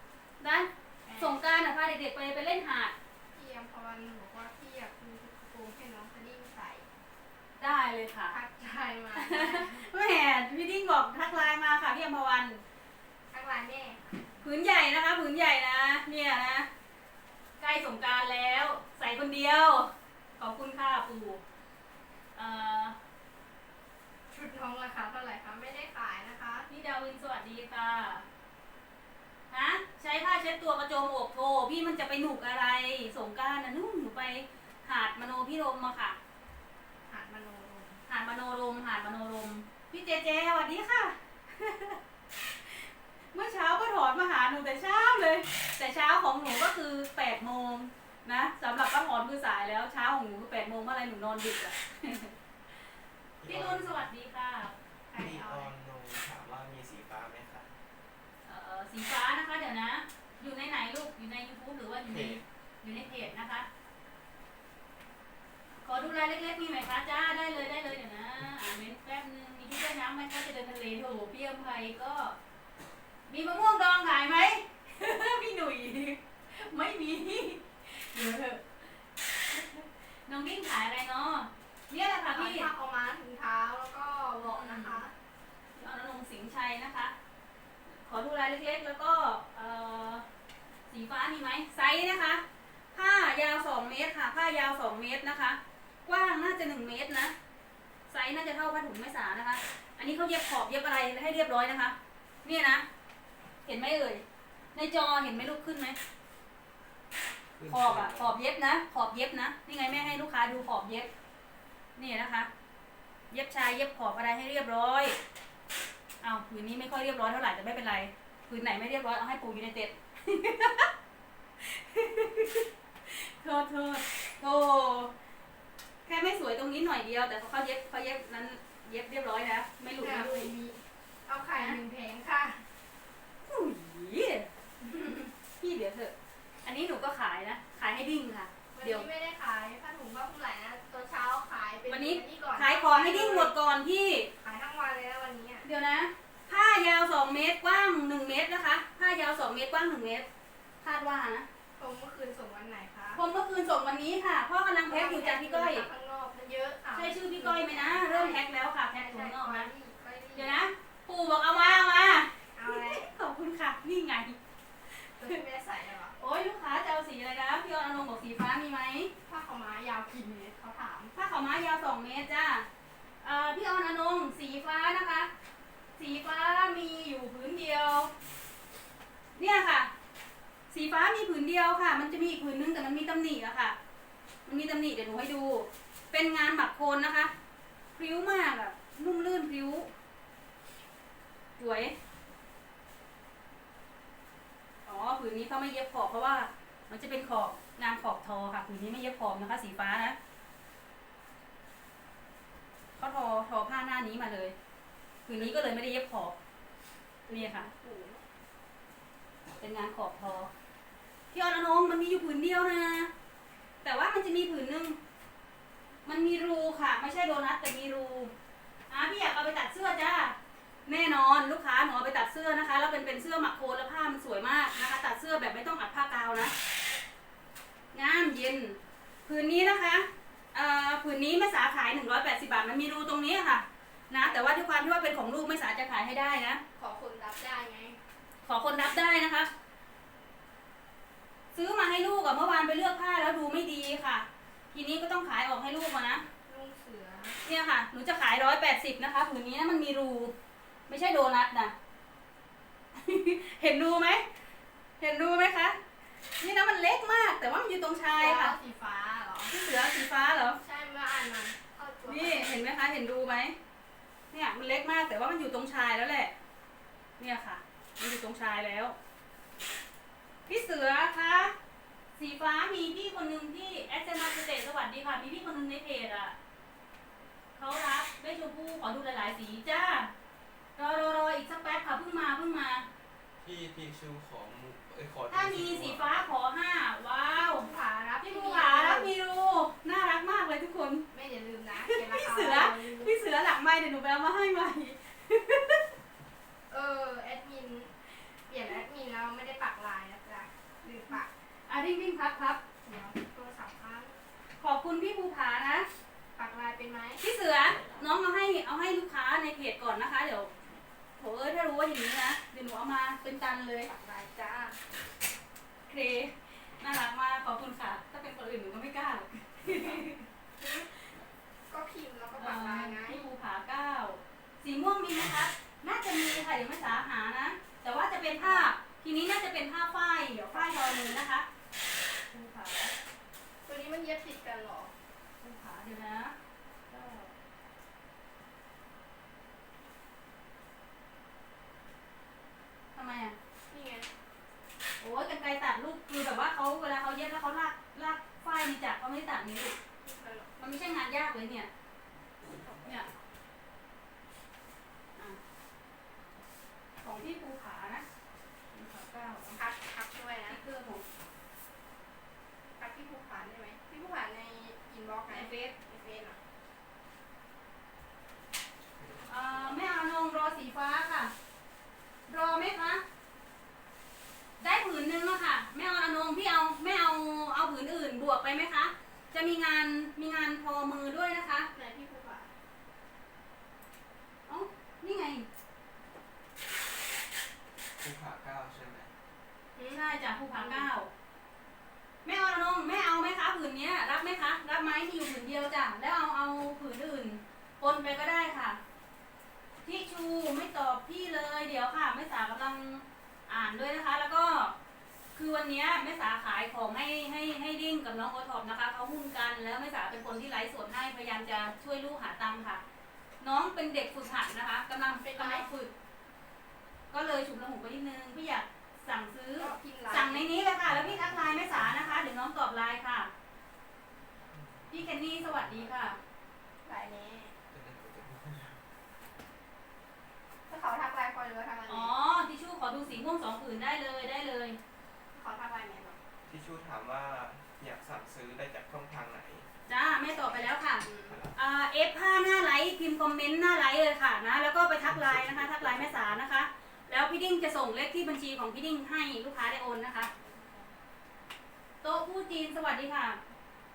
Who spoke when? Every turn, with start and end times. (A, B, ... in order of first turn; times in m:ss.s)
0:00.4-0:02.9 A
0:01.0-0:01.4 B
0:03.3-0:06.9 B
0:07.6-0:08.4 A
0:08.3-0:09.9 B
0:09.1-0:12.6 A
0:13.3-0:14.3 B
0:14.4-0:16.7 A
0:17.6-0:21.4 A
0:22.3-0:22.9 A
0:24.3-0:26.7 B
0:26.7-0:28.2 A
0:29.5-0:36.2 A
0:37.1-0:38.0 B
0:38.1-0:52.9 A
0:53.4-0:54.0 C
0:53.4-0:54.7 A
0:55.1-0:55.7 B
0:55.1-0:57.7 C
0:58.4-1:03.7 A
1:02.0-1:02.4 C
1:05.8-1:12.4 A
1:13.3-1:22.7 A
1:22.3-1:25.1 B
1:24.4-1:25.0 A
1:25.8-1:27.1 A
1:27.8-1:30.2 A
1:30.9-1:32.4 A
1:32.9-1:37.3 A
1:38.1-1:42.8 A
1:43.6-1:46.0 A
1:47.6-1:48.3 C
1:47.7-1:51.1 A
1:52.0-1:52.5 A
1:53.3-1:55.2 A
1:56.2-2:00.9 A
2:01.6-2:05.1 A
2:06.0-2:10.5 A
2:10.0-2:12.6 B
2:13.4-2:19.0 A
2:18.7-2:23.5 B
2:21.9-2:24.3 A
2:24.4-2:25.7 B
2:25.6-2:30.3 A
2:30.8-2:31.5 A
2:31.8-2:33.2 B
2:33.2-2:35.8 A
2:34.9-2:38.4 B
2:37.0-2:39.7 A
2:39.0-2:40.6 B
2:40.3-2:44.4 A
2:42.6-2:43.1 B
2:44.9-2:45.4 A
2:45.2-2:46.2 B
2:46.2-2:49.1 A
2:49.2-2:51.1 B
2:51.1-2:52.6 A
2:53.2-2:55.3 A
2:56.0-2:58.1 A
2:59.4-2:59.9 A
3:00.7-3:03.8 A
3:04.4-3:07.3 A
3:07.9-3:09.9 A
3:11.6-3:11.9 A
3:14.8-3:20.2 A
3:23.0-3:24.5 A
3:25.2-3:26.3 A
3:25.4-3:25.8 B
3:27.2-3:28.2 B
3:27.3-3:27.7 A
3:29.6-3:30.5 A
3:31.3-3:33.1 A
3:33.8-3:35.0 A
3:36.0-3:38.3 A
3:38.9-3:46.5 A
3:47.9-3:56.6 A
3:56.8-3:58.0 B
3:58.4-3:59.5 A
4:01.5-4:06.2 A
4:06.4-4:07.4 B
4:07.4-4:10.3 A
4:10.9-4:11.7 A
4:12.9-4:14.3 A
4:15.0-4:15.8 A
4:16.4-4:18.6 A
4:18.1-4:19.5 B
4:19.5-4:20.6 A
4:20.6-4:22.7 B
4:22.1-4:23.5 A
4:24.3-4:26.3 A
4:27.2-4:29.0 A
4:30.5-4:31.5 A
4:32.2-4:36.4 A
4:37.6-4:40.1 A
4:40.8-4:42.9 A
4:43.4-4:46.1 C
4:45.3-4:47.7 A
4:47.4-4:49.1 B
4:48.2-4:51.0 A
4:51.1-4:53.2 B
4:51.8-4:55.8 A
4:56.7-4:57.9 B
4:58.5-5:01.3 B
5:01.7-5:02.6 A
5:02.8-5:04.1 B
5:04.6-5:05.9 A
5:06.4-5:07.2 B
5:07.2-5:10.5 A
5:11.2-5:13.9 A
5:13.8-5:14.8 B
5:15.9-5:20.2 A
5:19.7-5:20.0 C
5:21.7-5:23.2 B
5:22.4-5:31.5 A
5:28.4-5:28.7 B
5:30.5-5:31.0 B
5:32.3-5:32.9 A
5:33.6-5:34.9 B
5:35.4-5:36.3 A
5:36.9-5:37.3 B
5:42.9-5:43.3 A
5:43.7-5:44.1 B
5:45.0-5:49.8 A
5:50.0-5:50.5 B
5:50.6-5:51.7 A
5:52.6-5:53.0 B
5:57.0-5:58.0 A
5:58.7-6:00.6 B
6:00.5-6:01.0 A
6:02.8-6:06.4 B
6:05.3-6:05.7 A
6:08.8-6:09.8 C
6:09.3-6:11.3 A
6:12.3-6:13.0 A
6:14.6-6:21.7 A
6:21.7-6:22.5 B
6:24.5-6:25.5 A
6:28.0-6:29.1 C
6:29.9-6:31.1 A
6:30.5-6:30.9 B
6:32.2-6:38.8 A
6:39.8-6:44.7 A
6:45.3-6:52.8 A
6:53.4-6:55.9 A
6:55.2-6:55.7 B
6:57.1-7:03.3 A
6:59.6-7:00.5 B
7:00.8-7:02.1 C
7:04.5-7:06.3 C
7:04.9-7:06.2 A
7:06.8-7:07.5 B
7:07.7-7:08.8 C
7:10.7-7:12.1 B
7:11.9-7:14.8 A
7:15.3-7:16.2 B
7:16.5-7:19.7 C
7:19.9-7:30.3 A
7:20.4-7:21.4 B
7:21.2-7:21.5 C
7:25.0-7:26.4 C
7:30.3-7:30.9 B
7:32.0-7:33.4 A